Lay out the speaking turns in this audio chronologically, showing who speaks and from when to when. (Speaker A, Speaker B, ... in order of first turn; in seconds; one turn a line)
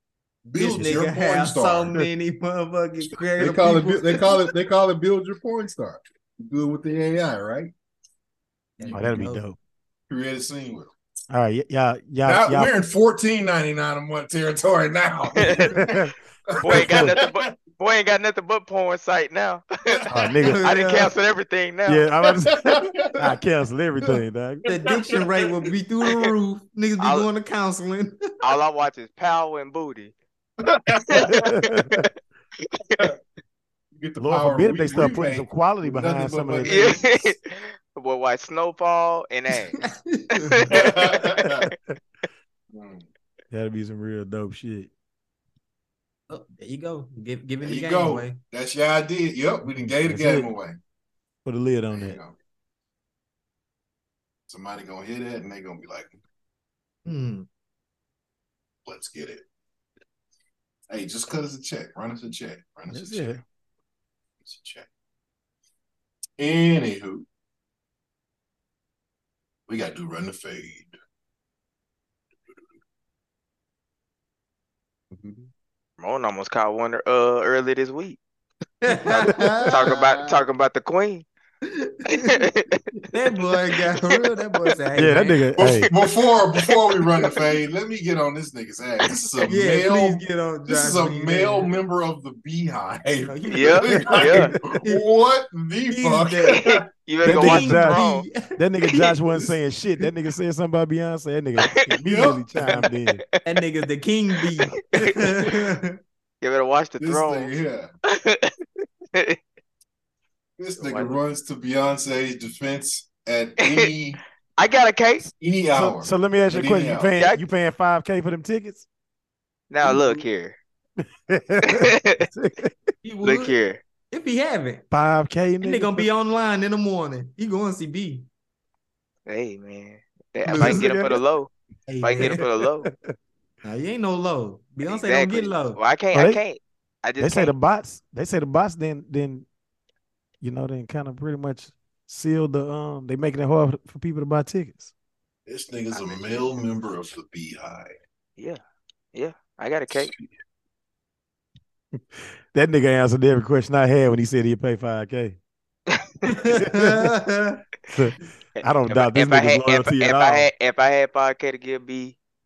Speaker A: 0.5-2.0
Speaker B: 0.6-4.4
Speaker A: 3.4-7.7
Speaker B: 8.8-9.4
Speaker A: 8.8-9.1
Speaker C: 8.9-9.6
Speaker A: 10.1-10.9
Speaker C: 11.3-12.7
Speaker A: 12.2-15.9
Speaker D: 15.4-15.7
Speaker C: 15.7-17.2
Speaker A: 16.6-17.5
Speaker D: 16.6-20.0
Speaker C: 20.1-20.7
Speaker B: 20.4-21.1
Speaker D: 20.6-22.1
Speaker C: 21.9-24.7
Speaker A: 22.5-23.1
Speaker B: 24.7-28.2
Speaker D: 27.0-27.3
Speaker D: 28.4-30.1
Speaker A: 30.6-31.3
Speaker D: 31.1-32.0
Speaker C: 31.3-32.1
Speaker D: 32.8-33.1
Speaker A: 33.9-37.3
Speaker C: 34.2-36.9
Speaker D: 36.6-37.4
Speaker D: 37.9-39.8
Speaker B: 39.8-41.1
Speaker D: 40.5-41.2
Speaker A: 40.7-41.7
Speaker A: 42.7-43.0
Speaker C: 43.5-44.9
Speaker B: 46.3-48.4
Speaker A: 47.6-50.8
Speaker C: 50.0-50.5
Speaker C: 51.4-52.2
Speaker A: 51.9-52.3
Speaker A: 54.5-56.2
Speaker B: 57.0-57.5
Speaker A: 58.8-59.4
Speaker A: 60.9-63.4
Speaker C: 62.9-63.4
Speaker A: 64.4-64.9
Speaker A: 66.4-67.2
Speaker A: 69.7-70.9
Speaker A: 75.1-75.5
Speaker D: 76.0-78.2
Speaker B: 78.8-80.0
Speaker C: 79.1-79.6
Speaker D: 79.7-81.2
Speaker B: 81.7-82.4
Speaker D: 82.1-82.8
Speaker B: 83.1-85.4
Speaker C: 85.0-85.9
Speaker A: 85.6-96.8
Speaker D: 86.7-87.3
Speaker B: 89.5-91.7
Speaker B: 93.3-95.0
Speaker D: 93.5-94.5
Speaker B: 95.9-96.7
Speaker D: 96.5-98.3
Speaker C: 97.2-103.2
Speaker B: 97.2-98.5
Speaker A: 102.0-102.4
Speaker B: 103.4-106.0
Speaker D: 104.9-105.4
Speaker D: 106.4-107.5
Speaker A: 107.0-107.9
Speaker D: 108.1-108.5
Speaker A: 110.6-114.2
Speaker D: 110.8-111.2
Speaker D: 113.6-113.9
Speaker D: 114.6-115.2
Speaker C: 115.2-118.8
Speaker A: 115.4-117.1
Speaker D: 119.7-120.6
Speaker B: 119.8-120.2
Speaker C: 121.3-122.7
Speaker D: 121.6-122.2
Speaker B: 123.0-123.5
Speaker D: 123.2-123.8
Speaker B: 124.1-124.8
Speaker C: 124.9-126.1
Speaker B: 125.6-128.2
Speaker D: 129.2-131.5
Speaker B: 130.5-131.1
Speaker C: 130.5-131.2
Speaker B: 131.9-132.4
Speaker D: 132.0-132.9
Speaker C: 132.2-133.1
Speaker B: 133.6-135.8
Speaker D: 134.8-137.5
Speaker C: 136.1-136.4
Speaker C: 137.2-139.4
Speaker C: 140.4-144.9
Speaker A: 145.4-147.9
Speaker D: 149.1-150.1
Speaker A: 149.9-150.3
Speaker C: 152.0-155.4
Speaker B: 156.2-157.6
Speaker C: 156.5-157.1
Speaker C: 157.9-160.5
Speaker D: 158.8-162.2